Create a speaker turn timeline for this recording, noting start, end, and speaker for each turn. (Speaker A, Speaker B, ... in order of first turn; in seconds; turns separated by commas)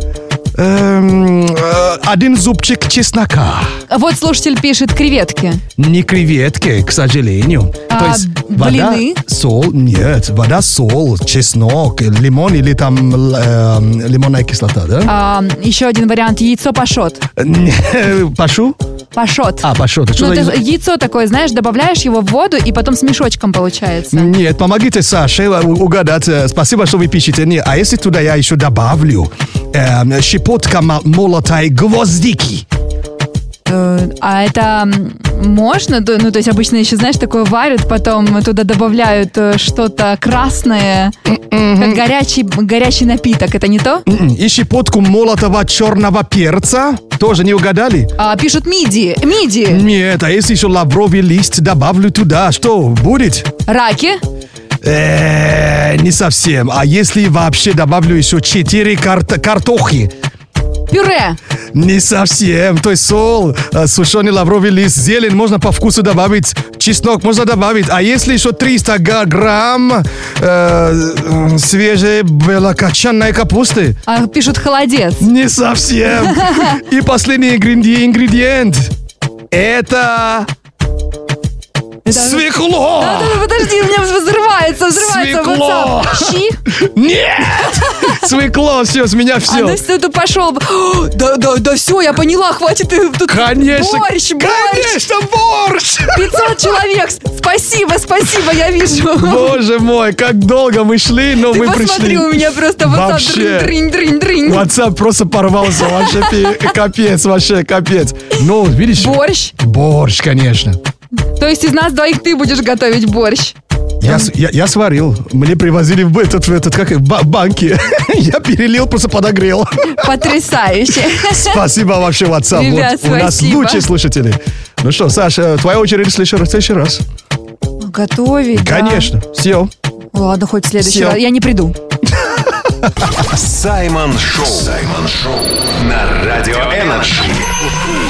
Speaker A: 0.5-3.8, Speaker B: 3.9-5.6, Speaker A: 5.8-15.1, Speaker B: 7.9-9.2, Speaker B: 15.1-17.2, Speaker A: 17.4-18.8, Speaker B: 19.1-24.3, Speaker A: 19.6-20.6, Speaker A: 24.1-32.6, Speaker B: 33.7-41.1, Speaker A: 41.2-42.0, Speaker B: 41.8-44.0, Speaker A: 44.0-48.1, Speaker B: 48.2-49.8, Speaker A: 49.7-53.5, Speaker B: 53.7-54.2, Speaker A: 54.8-60.1, Speaker B: 60.9-61.4, Speaker A: 61.7-74.0, Speaker B: 74.1-75.3, Speaker A: 75.2-78.9, Speaker B: 76.2-76.8, Speaker A: 79.5-80.5, Speaker B: 82.0-86.6, Speaker A: 82.1-83.5, Speaker A: 84.9-89.8, Speaker B: 87.8-88.1, Speaker B: 89.5-95.0, Speaker A: 93.3-96.6, Speaker B: 96.1-99.6, Speaker A: 99.1-103.7, Speaker B: 101.4-104.7, Speaker A: 104.4-110.8, Speaker B: 105.8-106.7, Speaker B: 109.0-109.5, Speaker B: 111.4-114.3, Speaker A: 114.0-120.2, Speaker B: 119.9-121.5, Speaker A: 121.2-127.0, Speaker B: 122.5-123.8, Speaker B: 127.8-129.1, Speaker A: 128.5-129.7, Speaker B: 130.1-131.7, Speaker A: 130.8-131.2, Speaker A: 132.1-133.1, Speaker C: 133.2-137.6